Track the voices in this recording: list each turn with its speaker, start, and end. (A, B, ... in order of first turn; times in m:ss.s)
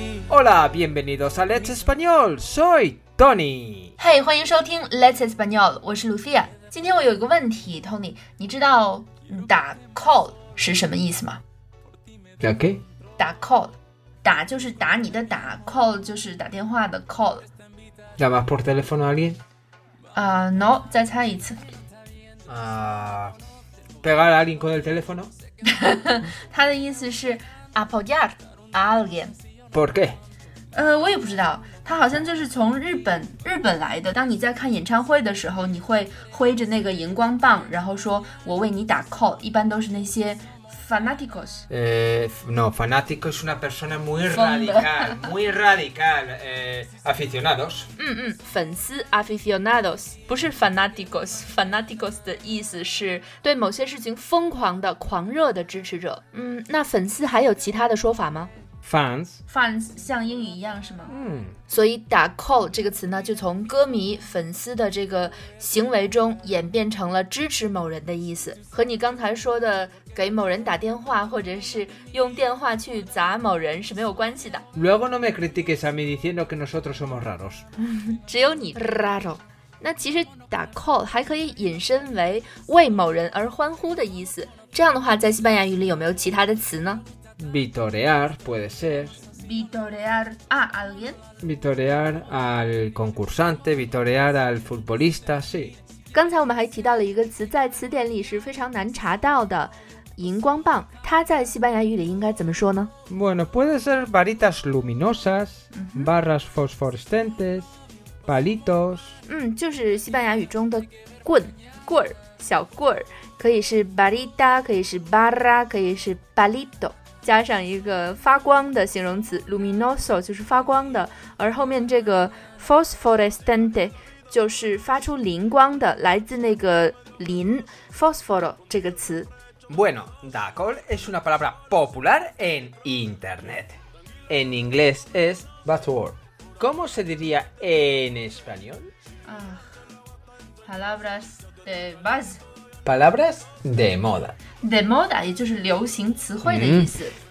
0:00.3-0:04.0 A
0:04.0-0:11.4 B
0:12.4-0:12.8 A
0:13.2-0:17.5 B
0:18.2-0:19.4 A
0:20.1-0:21.6 B
0:22.5-0:23.4 A
0:24.0-0:25.3 A
0:25.6-0:29.3 B
0:29.7-0:30.2 A
0:30.7-0:41.6 B
0:41.7-0:47.9 A
0:44.3-0:45.3 B
0:48.0-0:58.5 B
0:58.8-0:59.4 A
0:59.5-1:01.1 B
1:01.1-1:01.6 A
1:01.7-1:14.6 B
1:14.7-1:17.6 A
1:17.8-1:27.0 B
1:27.4-1:29.2 A
1:29.3-1:31.2 B
1:31.4-1:35.8 A
1:36.1-1:42.9 B
1:43.1-1:47.7 A
1:45.7-1:46.1 B
1:48.2-1:49.2 A
1:49.3-2:09.3 B
2:09.7-2:18.9 A
2:19.2-2:19.6 B
2:20.6-2:22.4 B
2:22.8-2:24.4 A
2:24.6-2:27.2 B
2:26.4-2:27.0 A